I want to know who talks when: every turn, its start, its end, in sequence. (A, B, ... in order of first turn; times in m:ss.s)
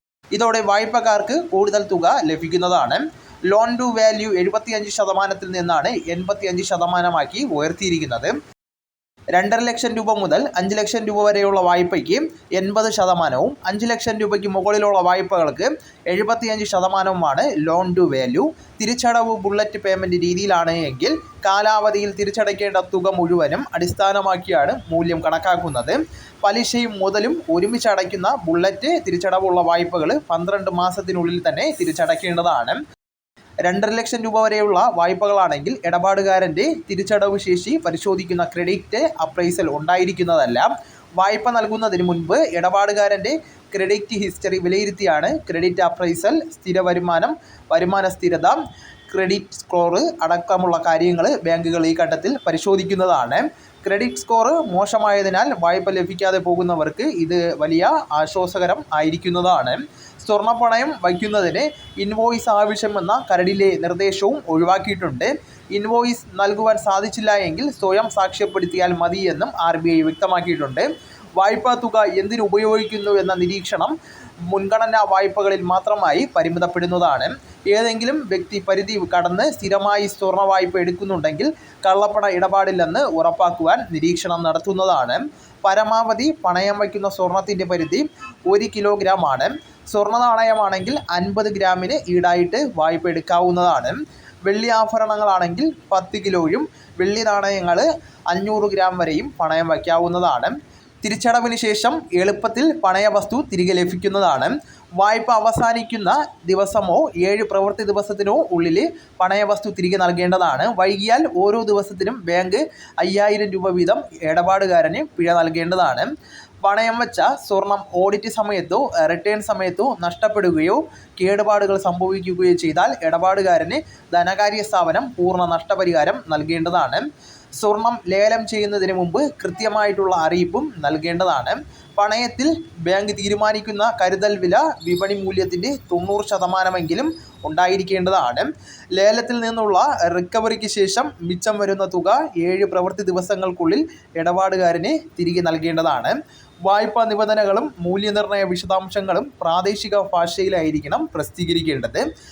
0:00.3-0:08.4 A
0:09.4-0:32.8 A
0:33.7-0:48.6 A
0:49.1-1:14.0 A
1:14.5-1:56.1 A
1:56.6-2:07.1 A
2:07.6-2:32.1 A